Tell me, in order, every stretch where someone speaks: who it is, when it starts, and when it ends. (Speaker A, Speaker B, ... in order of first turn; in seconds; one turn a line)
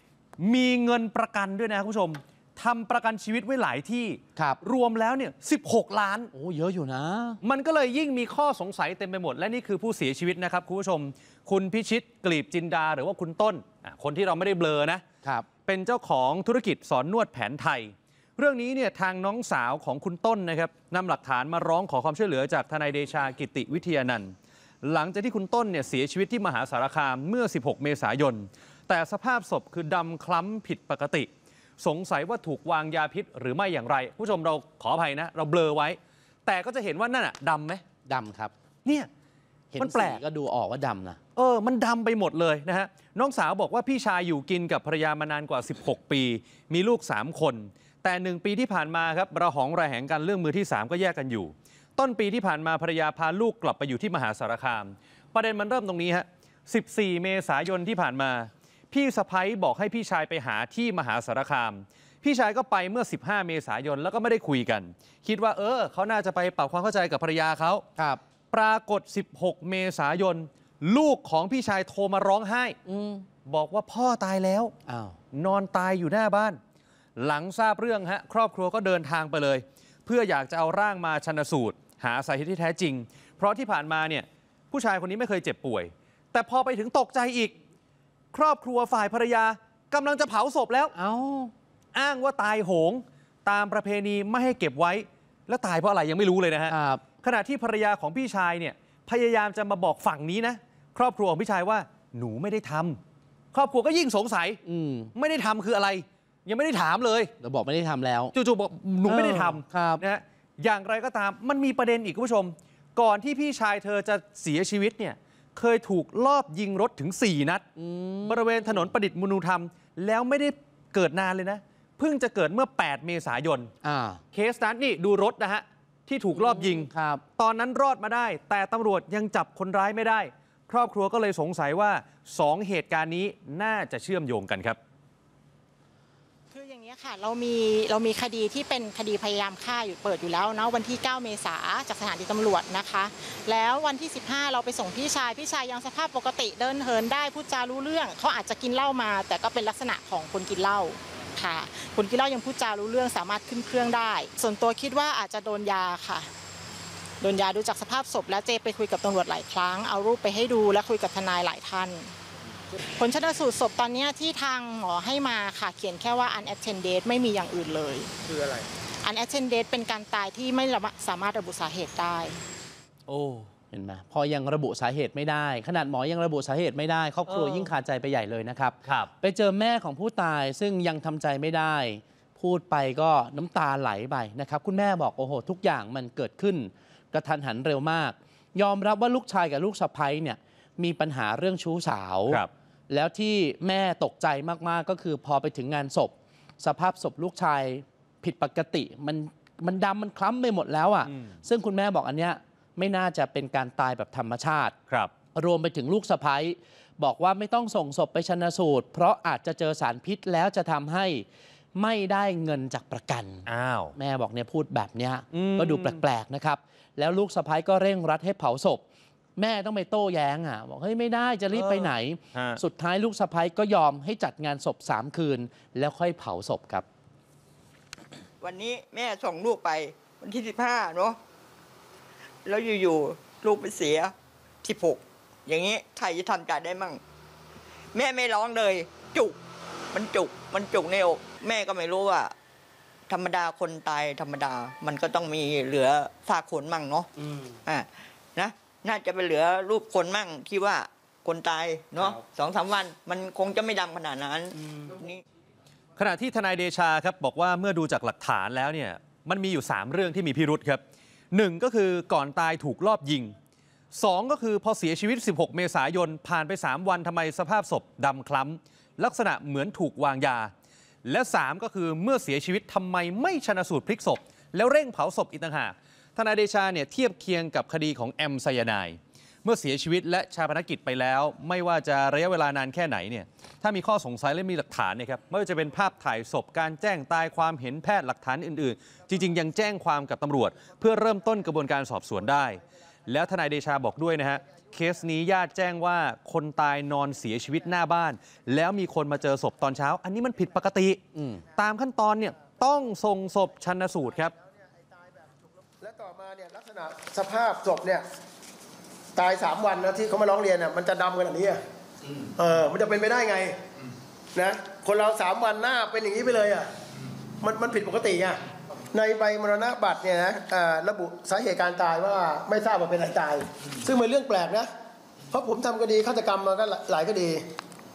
Speaker A: 0.4-6.3
Speaker B: 6.3-7.4
Speaker A: 7.4-15.0
Speaker A: 15.7-37.8
Speaker B: 38.0-38.5
Speaker B: 39.7-41.2
Speaker A: 39.8-40.2
Speaker A: 41.4-67.8
Speaker A: 68.5-72.8
Speaker B: 72.8-73.2
Speaker A: 73.5-74.7
Speaker B: 74.8-75.2
Speaker A: 75.3-76.6
Speaker A: 77.2-87.5
Speaker A: 88.3-90.9
Speaker B: 90.9-91.5
Speaker A: 91.9-103.0
Speaker B: 96.7-97.0
Speaker A: 103.5-104.6
Speaker B: 104.6-105.1
Speaker A: 105.1-107.3
Speaker B: 107.4-108.3
Speaker A: 108.3-117.7
Speaker B: 109.0-110.0
Speaker B: 117.8-118.9
Speaker A: 118.2-123.7
Speaker B: 123.8-124.2
Speaker A: 124.3-134.8
Speaker B: 126.3-127.2
Speaker C: 136.5-156.3
Speaker C: 157.2-162.1
Speaker C: 163.0-168.1
Speaker C: 169.0-172.4
Speaker A: 173.1-173.4
Speaker B: 173.5-204.7
Speaker A: 177.2-177.7
Speaker B: 205.3-218.8
Speaker A: 213.5-213.9
Speaker A: 215.3-216.0
Speaker B: 219.3-226.8
Speaker A: 221.5-222.6
Speaker D: 228.4-231.2
Speaker D: 232.4-237.0
Speaker D: 237.9-239.4
Speaker D: 239.9-242.3
Speaker D: 243.1-255.2
Speaker A: 255.9-263.3
Speaker A: 263.9-270.5
Speaker A: 271.0-301.0
Speaker B: 301.1-301.4
Speaker A: 301.5-304.3
Speaker E: 305.8-308.0
Speaker E: 309.1-311.6
Speaker E: 312.3-313.6
Speaker E: 314.3-316.7
Speaker E: 317.4-324.7
Speaker E: 325.3-327.4